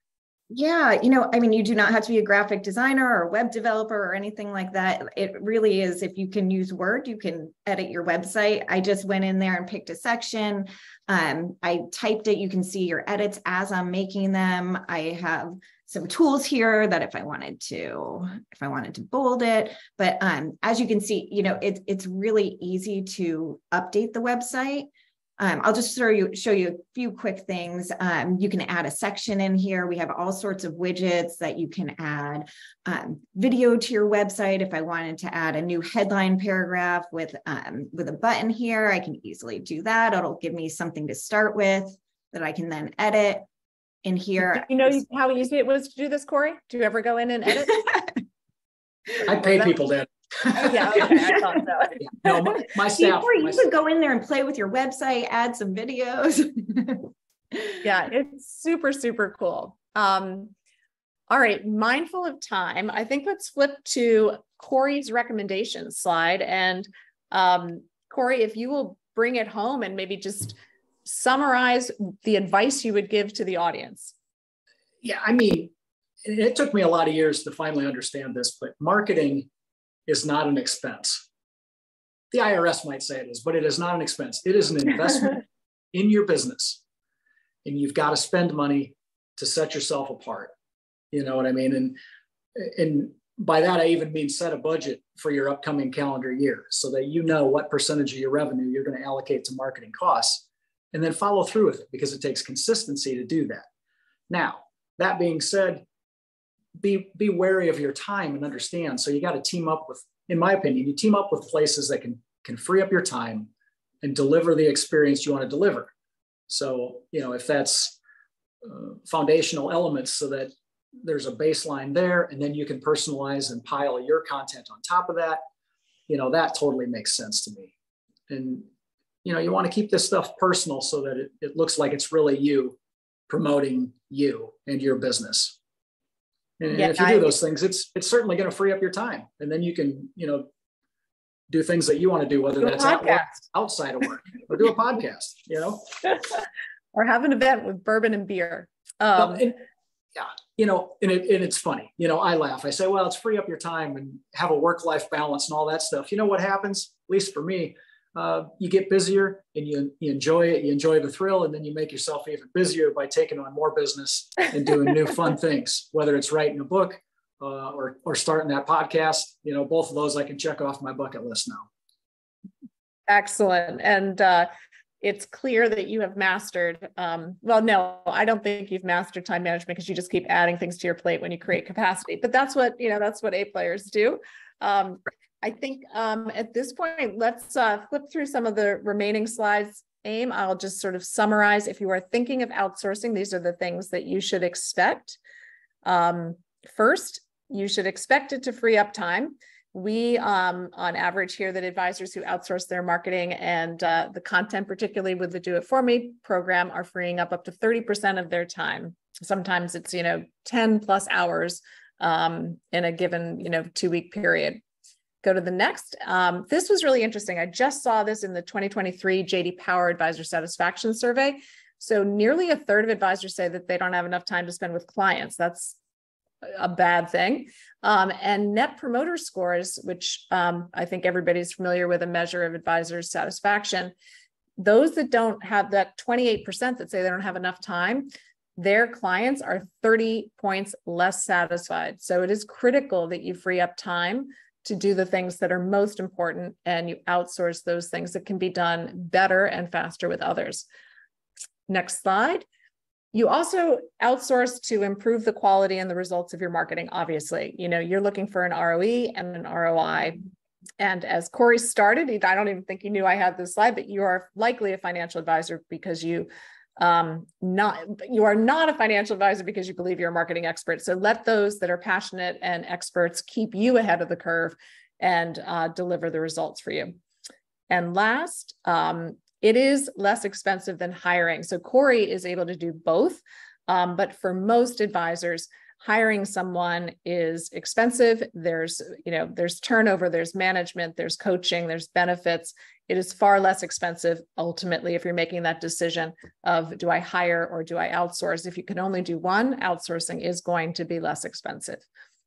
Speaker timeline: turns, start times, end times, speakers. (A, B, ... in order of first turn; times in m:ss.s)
0:00.5-0:43.5 A
0:44.0-0:45.0 A
0:44.5-0:47.9 B
0:49.2-0:51.2 C
0:50.6-0:52.3 B
0:50.7-0:51.0 A
0:52.0-0:53.7 C
0:52.9-0:57.8 A
0:57.8-1:00.6 B
1:01.3-1:14.2 B
1:15.0-1:15.7 C
1:16.2-1:19.5 C
1:20.1-1:21.2 C
1:22.3-1:26.8 C
1:27.6-1:30.5 C
1:31.1-1:32.0 C
1:32.6-1:43.7 C
1:44.3-1:45.8 C
1:46.8-1:53.5 C
1:54.0-1:55.9 C
1:56.5-1:58.0 C
1:58.6-2:05.4 C
2:06.1-2:07.7 C
2:08.3-2:08.7 C
2:09.2-2:12.8 C
2:13.3-2:15.6 C
2:16.6-2:20.5 C
2:16.7-2:17.3 B
2:21.5-2:25.8 C
2:22.6-2:23.4 B
2:27.0-2:29.5 B
2:29.2-2:29.5 C
2:30.2-2:51.7 C
2:53.1-2:54.5 B
2:55.0-3:15.2 B
3:15.8-3:34.6 B
3:35.2-3:45.8 B
3:46.4-3:53.9 B
3:54.6-4:10.6 B
4:11.7-4:12.5 B
4:13.1-4:20.2 B
4:20.8-4:36.9 B
4:37.7-5:01.8 B